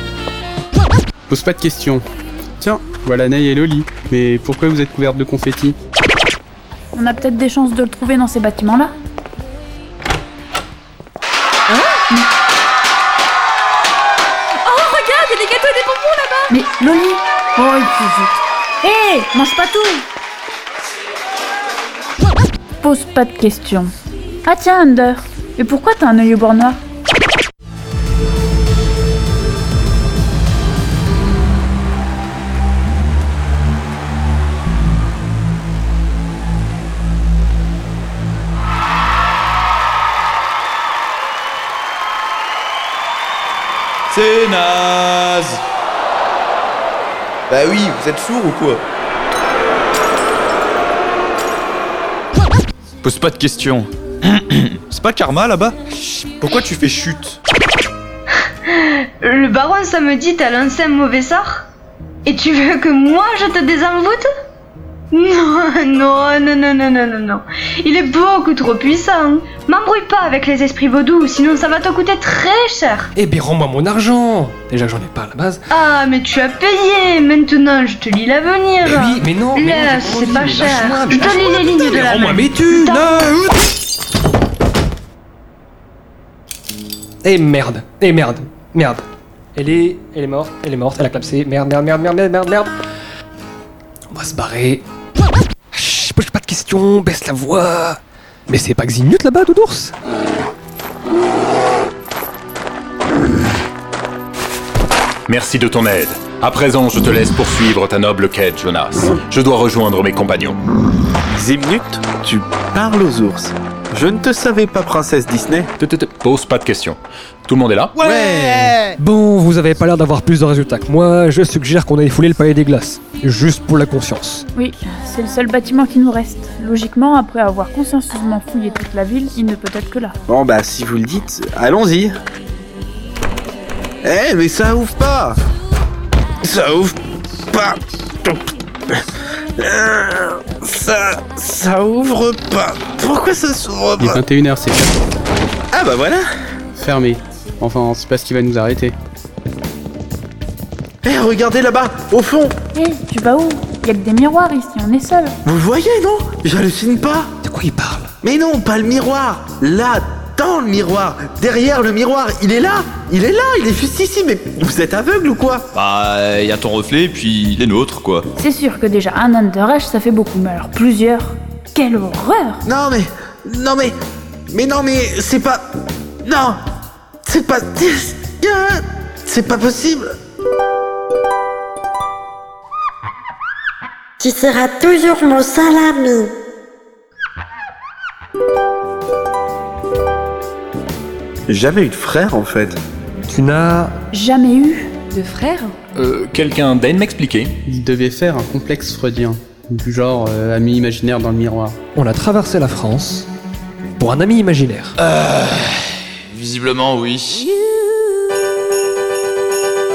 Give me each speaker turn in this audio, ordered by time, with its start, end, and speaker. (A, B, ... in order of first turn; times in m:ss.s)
0:01.3-0:02.0 A
0:02.6-0:05.8 A
0:06.9-0:08.9 B
0:14.6-0:16.5 C
0:16.5-0:20.0 B
0:22.8-0:23.9 B
0:24.4-0:26.8 B
0:44.1-0:45.6 D
0:47.5-0:48.8 D
0:53.0-0:55.8 D
0:56.4-0:57.4 D
0:58.7-1:01.7 E
1:02.2-1:04.3 E
1:05.1-1:13.1 E
1:13.2-1:15.6 F
1:15.7-1:23.3 E
1:18.8-1:23.6 F
1:27.2-1:29.0 F
1:29.6-1:32.7 F
1:34.1-1:34.8 F
1:35.7-1:39.9 F
1:45.3-1:50.6 G
1:51.3-1:55.7 H
1:55.8-1:58.1 G
1:58.4-2:04.4 F
2:04.5-2:10.2 B
2:10.3-2:12.1 H
2:14.0-2:15.4 H
2:16.4-2:17.0 H
2:17.5-2:18.4 H
2:19.6-2:24.2 H
2:24.0-2:25.0 A
2:25.7-2:26.2 H
2:26.8-2:28.9 A
2:31.0-2:32.5 H
2:32.7-2:35.3 B
2:35.4-2:37.3 H
2:37.4-2:38.1 F
2:38.2-2:45.7 H
2:45.7-2:48.3 D
2:48.4-2:52.6 B
2:52.6-2:53.9 H
2:54.5-2:55.6 H
2:56.2-2:56.6 H
2:57.2-3:00.1 H
3:04.2-3:06.3 I
3:11.5-3:12.8 H
3:13.3-3:13.9 F
3:14.1-3:14.9 B
3:15.1-3:15.7 C
3:16.0-3:17.5 G
3:17.6-3:21.8 A
3:21.9-3:23.3 F
3:24.0-3:24.9 F
3:25.0-3:27.4 D